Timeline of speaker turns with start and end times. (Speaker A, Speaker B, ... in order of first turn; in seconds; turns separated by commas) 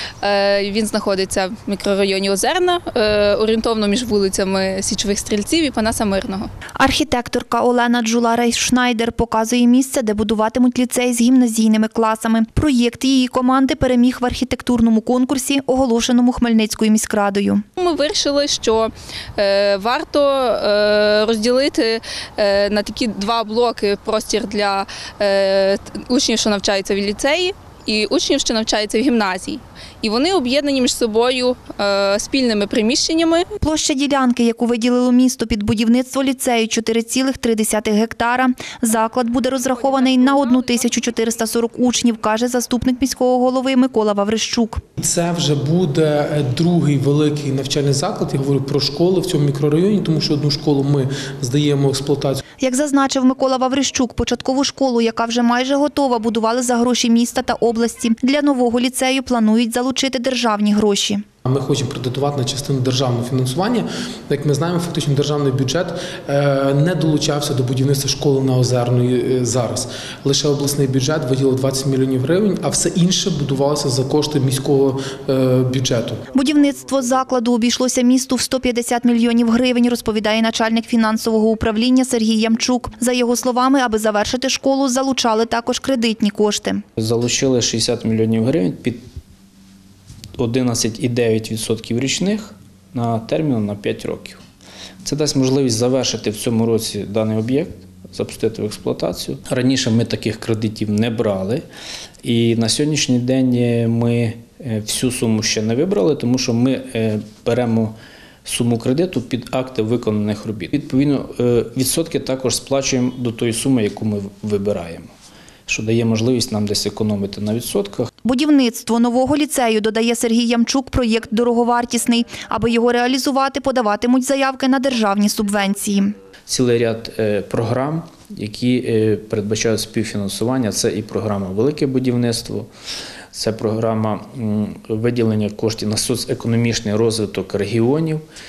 Speaker A: 0.2-6.5, Speaker B: 6.8-17.6, Speaker A: 17.8-33.5, Speaker B: 33.6-44.8, Speaker C: 45.0-52.4, Speaker B: 52.6-61.2, Speaker C: 61.5-76.3, Speaker B: 76.3-86.8, Speaker D: 87.0-89.0, Speaker D: 90.4-94.4, Speaker D: 95.0-101.6, Speaker D: 102.2-115.1, Speaker D: 115.7-118.1, Speaker B: 118.2-126.1, Speaker D: 126.5-132.7, Speaker D: 133.3-138.2